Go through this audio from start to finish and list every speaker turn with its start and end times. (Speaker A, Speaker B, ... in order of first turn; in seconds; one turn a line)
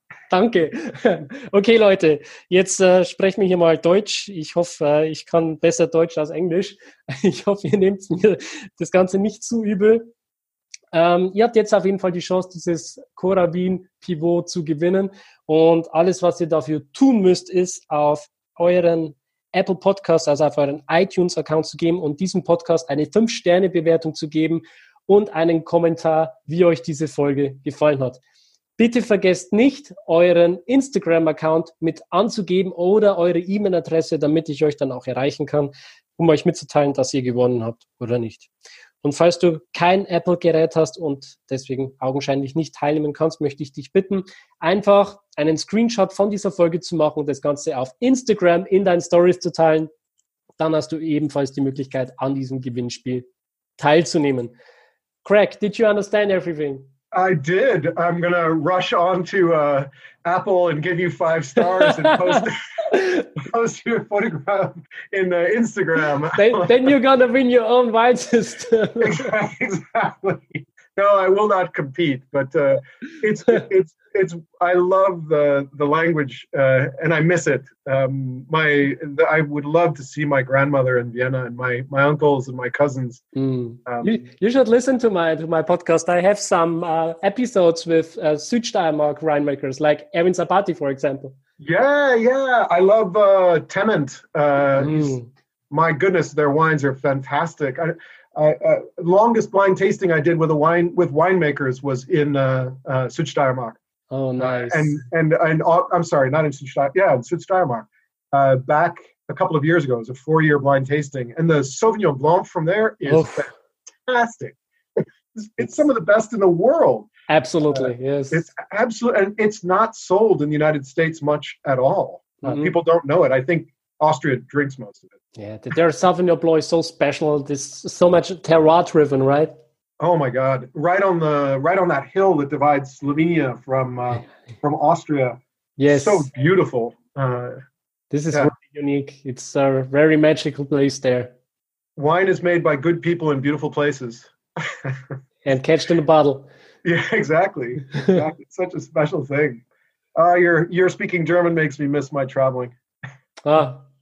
Speaker A: 0.3-10.1
Speaker A: 10.9-28.2
Speaker A: 28.8-38.5
Speaker A: 39.0-49.9
Speaker A: 50.6-53.2
Speaker A: 53.8-54.5
Speaker A: 55.2-56.8
Speaker B: 57.1-62.6
Speaker A: 61.7-63.3
Speaker B: 63.3-66.9
Speaker A: 66.3-69.3
Speaker B: 69.0-83.2
Speaker A: 83.3-91.3
Speaker B: 83.8-84.1
Speaker B: 91.6-95.2
Speaker A: 94.8-95.3
Speaker B: 95.7-103.8
Speaker A: 104.1-105.0
Speaker B: 104.4-113.5
Speaker A: 113.0-113.5
Speaker B: 114.1-114.6
Speaker B: 115.3-117.1
Speaker A: 117.3-118.5
Speaker B: 117.7-125.1
Speaker A: 122.4-122.7
Speaker A: 125.3-129.5
Speaker B: 130.0-137.6
Speaker A: 135.8-136.3
Speaker A: 138.1-141.3
Speaker B: 141.9-145.0
Speaker A: 145.4-146.5
Speaker B: 146.8-149.6
Speaker B: 150.2-152.8
Speaker A: 153.4-153.8